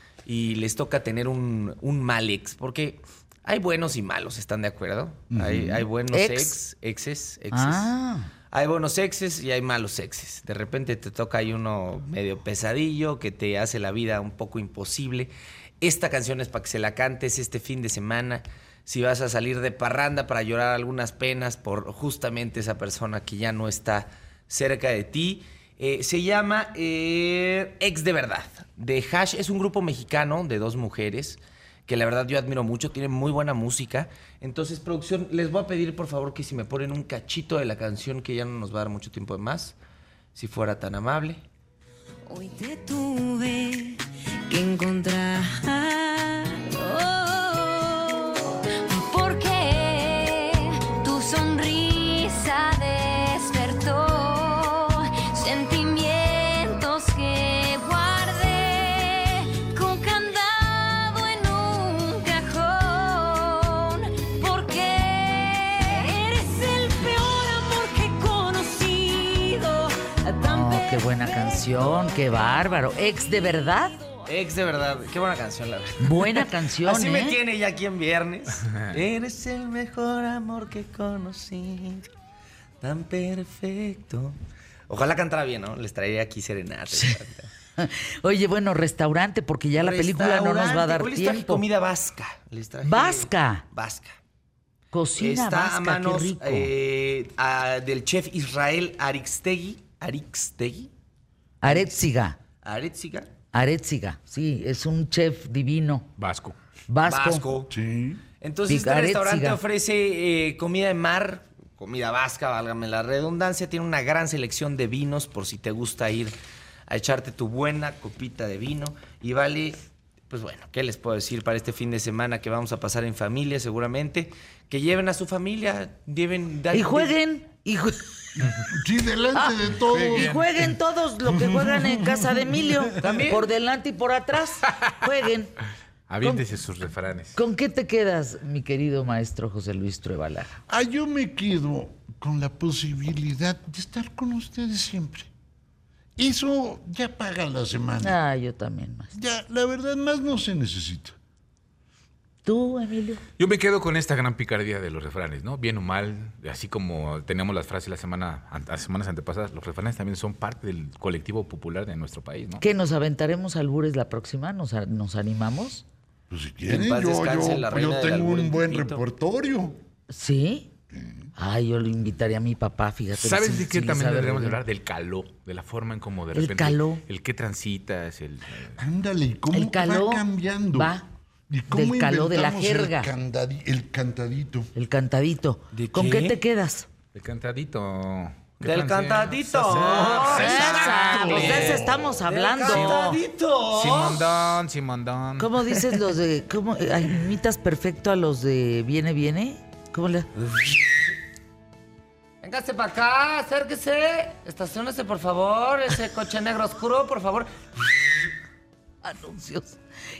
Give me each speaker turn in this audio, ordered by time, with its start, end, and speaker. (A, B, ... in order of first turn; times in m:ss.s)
0:00.2-0:07.9 A
0:05.3-0:05.9 B
0:06.1-0:06.6 C
0:07.5-0:08.3 C
0:08.5-0:39.8 A
0:40.3-0:41.4 A
0:42.3-1:11.3 D
1:10.5-1:14.0 C
1:14.3-1:22.1 A
1:16.0-1:17.4 C
1:22.8-1:24.4 A
1:24.9-1:27.5 A
1:27.8-1:31.6 C
1:29.7-1:34.2 A
1:32.8-1:33.6 C
1:34.9-1:36.7 C
1:35.2-1:40.9 A
1:41.6-1:42.4 C
1:41.6-1:42.0 A
1:42.6-1:43.3 A
1:43.5-1:46.1 C
1:46.2-1:46.6 E
1:46.9-1:47.5 C
1:47.0-1:47.7 A
1:47.7-1:48.2 B
1:48.4-1:56.4 A
1:48.7-1:49.6 C
1:56.9-1:59.8 A
2:00.3-2:07.2 A
2:06.7-2:08.5 C
2:08.6-2:10.7 B
2:09.4-2:15.6 C
2:09.9-2:10.5 E
2:11.3-2:13.2 B
2:13.0-2:13.5 A
2:16.1-2:17.4 E
2:17.4-2:20.6 C
2:20.7-2:25.3 B
2:26.2-2:28.2 B
2:28.0-2:29.1 C
2:29.1-2:31.2 B
2:32.4-2:33.2 C
2:33.4-2:42.6 E
2:42.6-2:45.8 C
2:46.3-2:49.8 B
2:46.7-2:49.0 A
2:50.1-2:50.7 C
2:51.4-2:54.6 C
2:53.2-2:58.8 E
2:56.3-2:57.0 C
2:58.8-3:01.0 B
2:59.5-3:01.0 C
3:01.5-3:04.7 B
3:01.7-3:03.1 C
3:04.8-3:06.9 C
3:05.7-3:06.4 A
3:07.1-3:11.6 E
3:08.6-3:14.3 A
3:09.9-3:12.2 B
3:10.2-3:13.2 C
3:12.7-3:13.1 E
3:13.7-3:15.9 E
3:15.4-3:20.4 C
3:22.4-3:28.0 A
3:29.0-3:29.8 C